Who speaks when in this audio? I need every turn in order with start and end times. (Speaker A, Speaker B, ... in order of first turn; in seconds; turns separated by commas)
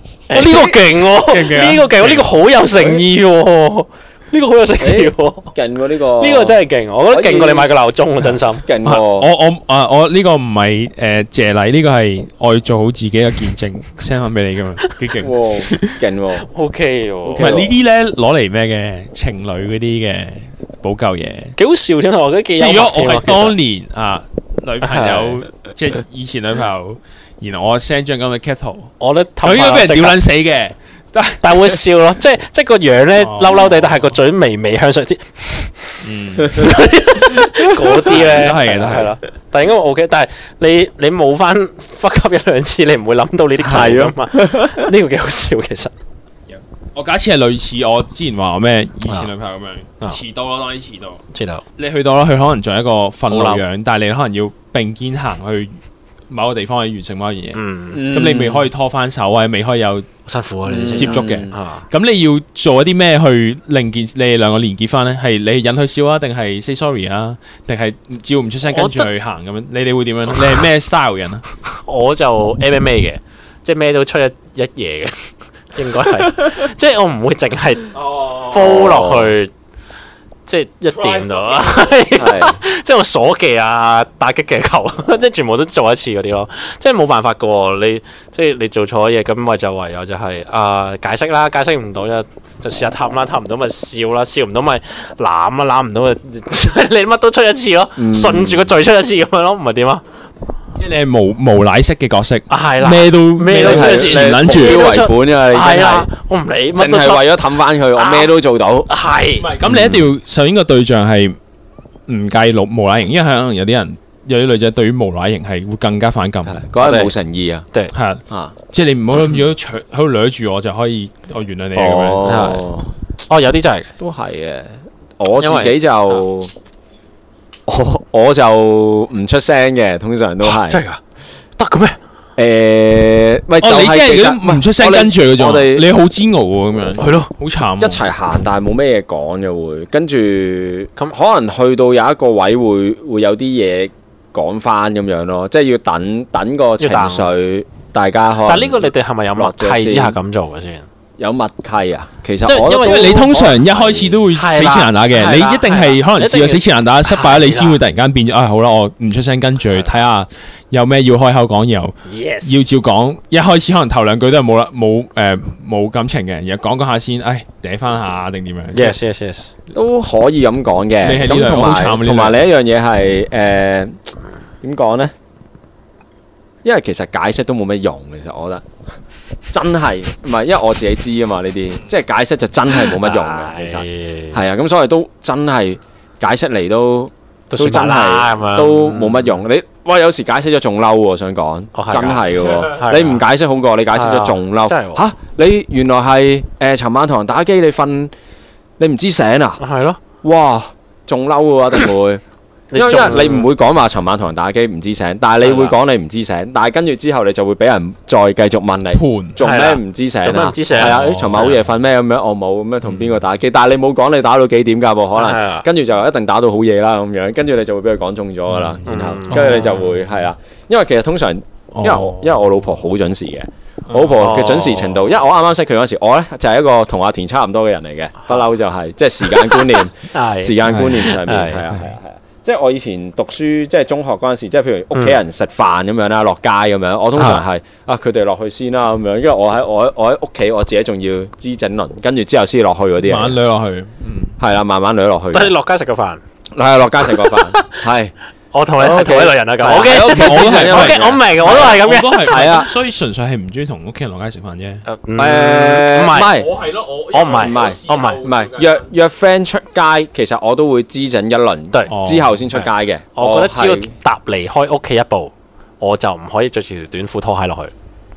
Speaker A: 0.3-5.5, Speaker B: 0.3-2.3, Speaker C: 4.8-6.6, Speaker A: 6.2-8.7, Speaker C: 7.1-7.7, Speaker C: 8.6-9.3, Speaker B: 8.8-16.0, Speaker C: 15.2-16.5, Speaker A: 16.5-17.6, Speaker C: 17.3-17.7, Speaker B: 17.4-21.6, Speaker A: 21.6-23.6, Speaker B: 22.6-31.8, Speaker A: 24.8-25.4, Speaker A: 29.0-30.2, Speaker A: 31.4-45.9, Speaker B: 33.2-34.0, Speaker B: 36.0-36.6, Speaker C: 37.3-39.0, Speaker B: 38.0-39.1, Speaker C: 43.6-44.9, Speaker B: 46.5-51.2, Speaker A: 51.3-51.6, Speaker B: 51.8-55.8, Speaker A: 53.3-53.6, Speaker B: 56.3-60.1, Speaker A: 57.5-58.1, Speaker C: 57.9-58.7, Speaker A: 60.3-61.9, Speaker C: 60.7-61.5, Speaker B: 60.9-71.5, Speaker A: 68.7-69.1, Speaker A: 70.3-70.7, Speaker A: 71.7-79.5, Speaker B: 78.0-78.8, Speaker C: 78.5-79.3, Speaker A: 80.5-100.0, Speaker B: 80.9-82.0, Speaker C: 82.1-82.6, Speaker C: 98.0-98.7, Speaker B: 100.8-104.9, Speaker A: 102.5-107.4, Speaker C: 103.5-106.1, Speaker C: 106.7-108.9, Speaker A: 107.9-108.3, Speaker A: 108.9-109.5, Speaker B: 109.4-111.4, Speaker C: 109.7-110.0, Speaker B: 112.1-116.6, Speaker C: 116.5-117.7, Speaker A: 116.8-117.1, Speaker B: 117.9-122.3, Speaker C: 121.8-122.9, Speaker A: 122.2-122.7, Speaker A: 123.3-123.9, Speaker C: 124.0-126.5, Speaker A: 125.4-126.2, Speaker C: 127.7-130.8, Speaker A: 130.4-131.0, Speaker A: 131.6-132.0, Speaker C: 132.4-135.9, Speaker B: 133.6-138.0, Speaker A: 137.0-137.3, Speaker C: 137.8-150.2, Speaker A: 146.8-147.3, Speaker A: 148.4-150.9, Speaker C: 151.2-154.2, Speaker A: 152.4-153.4, Speaker B: 152.7-169.0, Speaker A: 154.3-157.8, Speaker A: 162.1-162.7, Speaker A: 168.7-169.5, Speaker C: 169.7-174.0, Speaker B: 171.0-172.5, Speaker C: 174.6-175.1, Speaker C: 176.6-178.7, Speaker C: 179.5-198.1, Speaker A: 182.7-184.4, Speaker A: 187.5-189.4, Speaker A: 191.8-193.2, Speaker A: 193.9-195.0, Speaker C: 198.8-199.6, Speaker A: 199.6-200.0, Speaker C: 200.2-202.2, Speaker A: 202.7-203.5, Speaker C: 202.7-243.4, Speaker A: 205.4-205.8, Speaker B: 208.9-209.4, Speaker A: 209.4-211.6, Speaker B: 210.8-211.5, Speaker A: 215.2-215.7, Speaker B: 218.5-220.0, Speaker A: 218.9-219.8, Speaker B: 221.7-222.3, Speaker B: 223.9-224.2, Speaker A: 224.2-225.2, Speaker A: 229.2-231.7, Speaker B: 230.7-231.2, Speaker B: 231.7-231.9, Speaker A: 237.2-237.4, Speaker B: 243.0-244.4, Speaker C: 244.4-245.5, Speaker A: 245.3-246.2, Speaker C: 246.6-248.1, Speaker A: 247.1-247.7, Speaker A: 248.5-252.6, Speaker C: 248.8-252.7, Speaker B: 249.8-254.8, Speaker A: 254.9-256.4, Speaker C: 255.2-256.5, Speaker B: 256.1-258.9, Speaker A: 257.1-258.2, Speaker C: 257.4-263.9, Speaker B: 261.9-262.4, Speaker A: 262.5-267.7